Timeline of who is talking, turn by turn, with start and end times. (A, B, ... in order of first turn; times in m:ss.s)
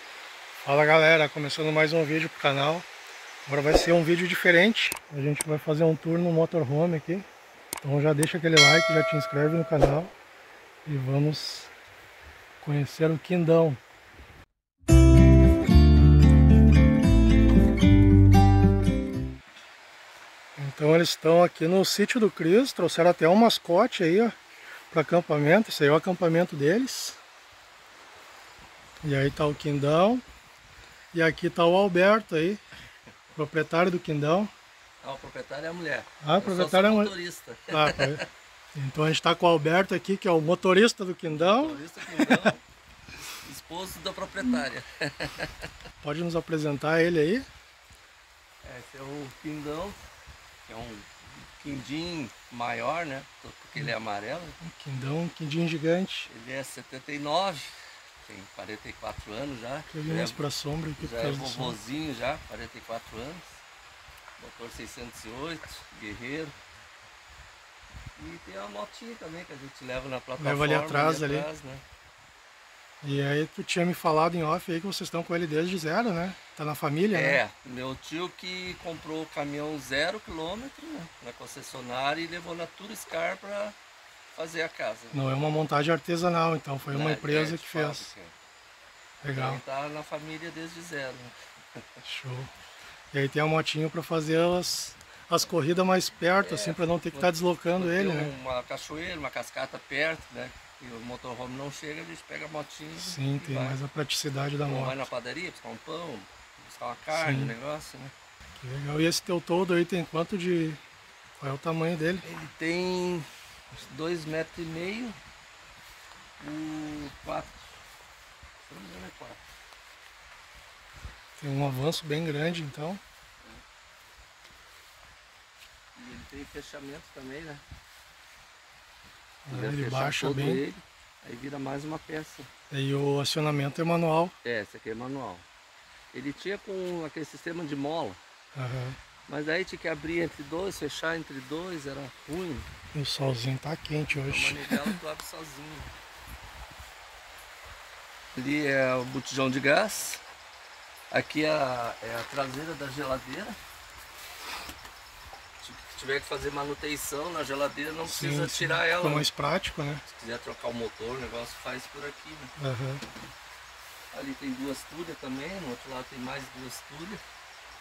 0:00.6-0:02.9 A
0:03.4-0:07.3 A
0:07.8-0:10.1 A
0:10.8-0:11.7 A
0:12.6-0:13.8 A
0:20.6-0:24.4 A
0:24.9-0:27.2 A
0:29.0-0:30.2 A
0:31.1-0:32.6 A
0:33.4-0:34.5 A
0:35.0-0:38.3 B
0:36.2-0:37.2 A
0:37.7-0:42.5 A
0:41.3-0:42.6 B
0:43.4-0:45.6 B
0:46.0-0:47.5 A
0:48.6-0:50.0 B
0:50.7-0:54.6 B
0:54.6-0:56.3 A
0:56.3-1:00.4 B
0:59.9-1:01.8 A
1:01.0-1:03.5 B
1:04.4-1:06.6 B
1:08.2-1:11.8 B
1:10.4-1:11.5 A
1:13.0-1:17.4 A
1:17.1-1:23.8 B
1:24.3-1:25.2 B
1:25.1-1:28.1 A
1:26.9-1:28.4 B
1:29.2-1:29.6 A
1:29.3-1:31.3 B
1:32.0-1:32.5 A
1:33.1-1:38.3 A
1:36.4-1:43.8 B
1:43.0-1:45.1 A
1:44.6-1:48.1 B
1:47.1-1:47.6 A
1:48.6-1:50.8 A
1:51.4-1:52.2 A
1:52.2-1:55.2 B
1:56.4-1:57.6 B
1:58.7-1:59.4 B
2:01.4-2:03.0 A
2:06.0-2:07.6 B
2:09.4-2:10.6 A
2:09.5-2:12.5 B
2:12.7-2:14.4 A
2:14.4-2:15.4 B
2:16.1-2:18.2 B
2:18.5-2:19.0 A
2:19.3-2:22.7 B
2:22.9-2:24.9 A
2:24.1-2:25.9 B
2:28.3-2:30.2 B
2:31.1-2:33.6 B
2:35.6-2:39.3 B
2:38.0-2:40.0 A
2:40.1-2:42.5 B
2:42.6-2:43.0 A
2:44.1-2:47.2 B